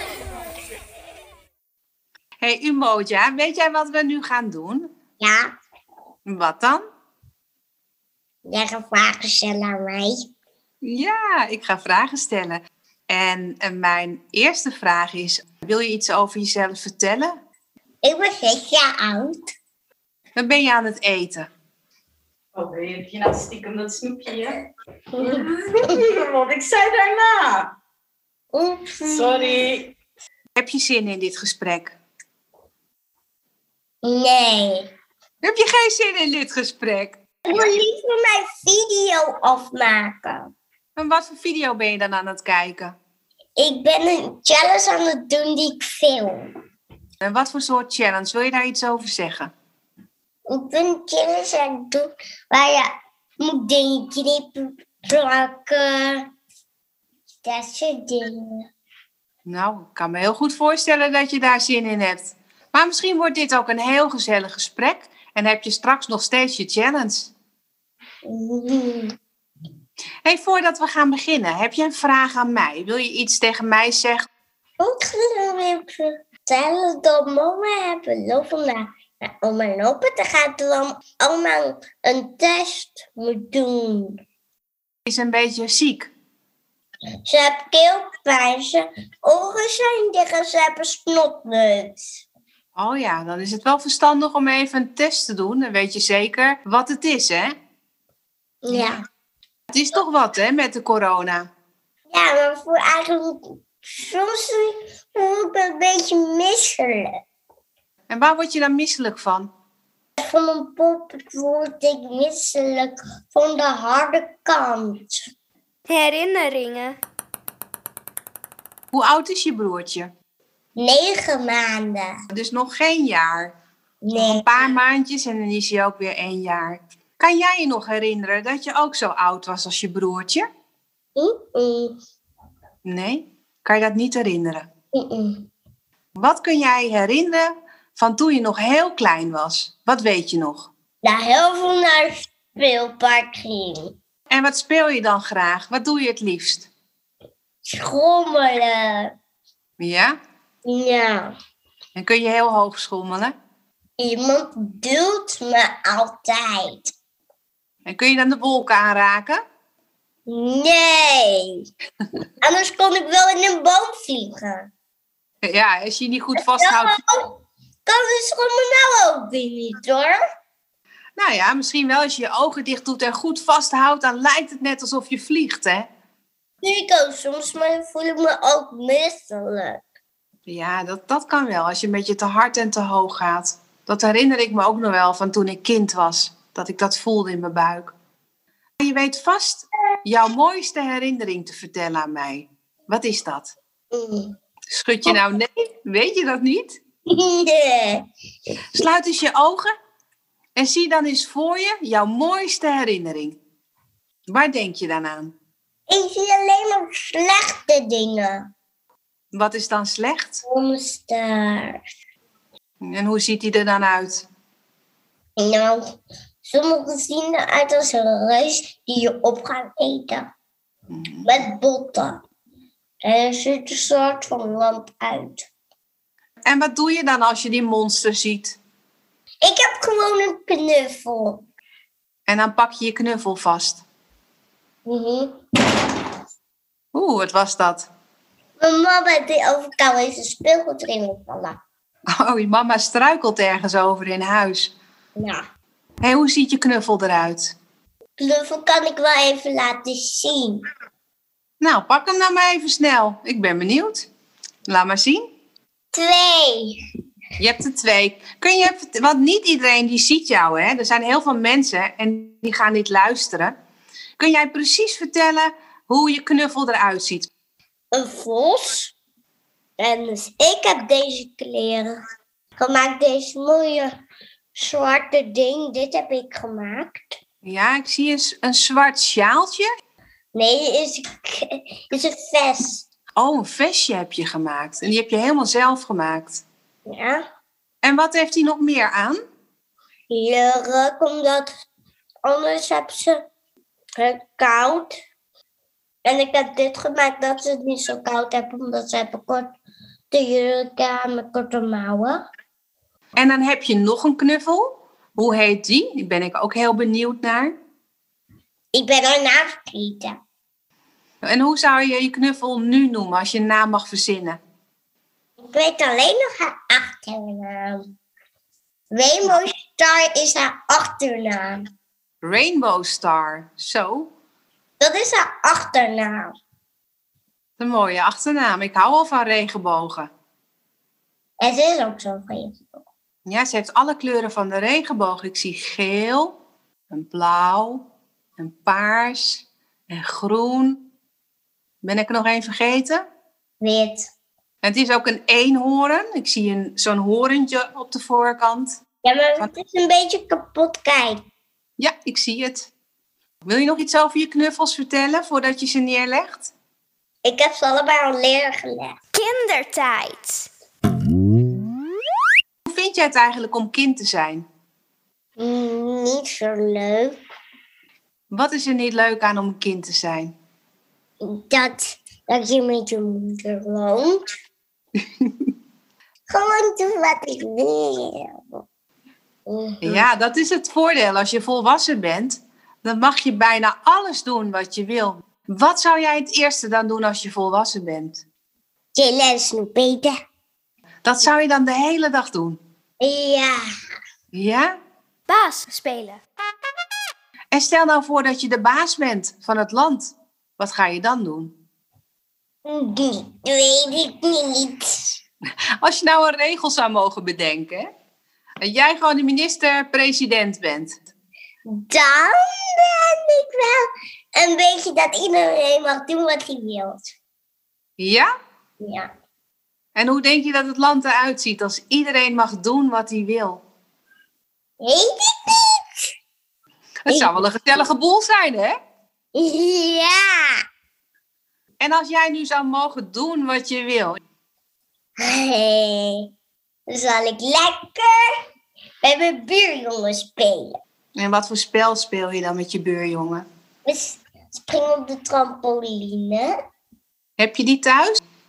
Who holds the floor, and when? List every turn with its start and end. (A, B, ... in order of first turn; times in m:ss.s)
0:02.4-0:04.9 A
0:05.2-0:05.5 B
0:06.3-0:06.8 A
0:08.4-0:10.2 B
0:10.8-0:17.3 A
0:18.0-0:19.4 B
0:20.4-0:21.5 A
0:22.5-0:24.6 C
0:25.1-0:25.9 B
0:25.2-0:27.7 C
0:28.5-0:29.6 B
0:29.1-0:29.9 C
0:30.6-0:31.9 A
0:34.0-0:34.9 B
0:35.4-0:37.7 A
0:37.4-0:40.5 B
0:41.0-0:42.9 A
0:43.6-0:46.5 B
0:47.2-0:49.5 A
0:50.5-0:56.2 B
0:57.4-0:58.6 B
0:59.5-1:07.3 A
1:08.2-1:09.2 B
1:10.2-1:14.3 A
1:14.8-1:24.2 B
1:25.0-1:26.1 A
1:27.2-1:32.2 B
1:32.8-1:37.5 A
1:38.6-1:39.0 B
1:38.7-1:39.0 A
1:39.7-1:41.4 A
1:42.1-1:47.1 B
1:48.1-1:49.5 A
1:50.2-1:55.3 B
1:55.9-1:57.0 D
1:58.9-2:00.1 A
2:00.8-2:02.1 B
2:02.3-2:03.5 A
2:04.0-2:04.4 B
2:04.1-2:10.4 A
2:11.2-2:12.0 B
2:12.8-2:14.6 A
2:14.9-2:15.5 B
2:16.2-2:20.7 A
2:21.0-2:23.9 B
2:24.3-2:26.7 A
2:27.7-2:29.1 B
2:29.8-2:30.1 A
2:30.6-2:31.3 B
2:32.0-2:33.3 A
2:34.0-2:36.9 B
2:37.9-2:39.4 A
2:40.3-2:41.6 B
2:42.4-2:44.7 B
2:45.4-2:47.0 A
2:46.5-2:47.3 B
2:47.8-2:50.2 B
2:51.2-2:55.8 A
2:56.6-2:59.8 B
3:00.5-3:07.9 A
3:08.8-3:13.5 A
3:13.9-3:14.4 B
3:14.7-3:16.8 A
3:17.1-3:18.0 B
3:18.7-3:19.7 A
3:20.6-3:23.4 A
3:24.3-3:25.3 A
3:25.9-3:28.5 B
3:29.3-3:30.4 A
3:30.4-3:31.8 B
3:32.8-3:34.2 A
3:35.4-3:35.8 B
3:36.4-3:40.3 B
3:40.9-3:41.3 A
3:41.2-3:42.2 B
3:43.0-3:45.5 B
3:46.5-3:48.6 A
3:49.4-3:51.4 B
3:52.3-3:53.8 A
3:54.8-3:55.4 B
3:56.9-3:57.9 A
3:58.6-4:01.6 B
4:02.2-4:04.7 A
4:06.0-4:07.5 A
4:08.2-4:10.6 B
4:11.6-4:14.1 A
4:14.7-4:15.2 A
4:15.9-4:16.8 B
4:17.4-4:23.5 A
4:24.2-4:27.3 A
4:27.9-4:28.9 B
4:29.8-4:32.0 B
4:32.6-4:33.9 B
4:34.5-4:37.2 B
4:37.4-4:39.7 A
4:40.3-4:42.9 B
4:43.2-4:46.4 A
4:46.9-4:47.2 B
4:47.8-4:49.2 A
4:50.1-4:51.5 B
4:52.2-4:53.2 B
4:54.0-4:55.0 B
4:56.0-4:59.5 B
5:00.1-5:02.2 B
5:03.2-5:07.5 A
5:08.7-5:10.2 B
5:11.2-5:14.4 A
5:15.4-5:17.9 B
5:18.9-5:21.7 B
5:22.2-5:24.1 A
5:24.8-5:26.4 B
5:27.6-5:30.1 A
5:31.4-5:32.8 B
5:33.2-5:36.3 A
5:36.9-5:37.8 A
5:38.4-5:40.8 A
5:41.8-5:43.0 A
5:43.6-5:44.1 B
5:44.6-5:48.7 A
5:49.0-5:51.2 B
5:51.8-5:52.7 A
5:53.4-5:56.5 A
5:57.2-5:58.9 B
5:59.1-6:00.5 D
6:02.7-6:04.4 A
6:05.4-6:07.1 B
6:08.3-6:10.3 A
6:11.2-6:14.2 B
6:16.3-6:18.6 B
6:19.5-6:20.0 B
6:19.8-6:28.2 A
6:28.9-6:30.1 B
6:31.0-6:32.6 A
6:33.0-6:33.6 B
6:34.3-6:34.7 A
6:35.3-6:36.2 D
6:37.5-6:41.5 A
6:42.6-6:45.2 B
6:45.8-6:47.9 A
6:48.6-6:50.9 A
6:51.7-6:53.8 B
6:54.4-6:57.0 B
6:58.0-6:58.3 A
6:58.8-6:59.1 B
7:00.0-7:03.6 A
7:04.8-7:06.1 B
7:07.1-7:08.7 A
7:07.1-7:07.5 B
7:09.3-7:10.6 B
7:11.8-7:14.2 A
7:15.2-7:16.2 B
7:16.9-7:18.3 B
7:19.0-7:20.8 B
7:21.2-7:23.4 A
7:23.8-7:26.5 B
7:27.4-7:28.1 A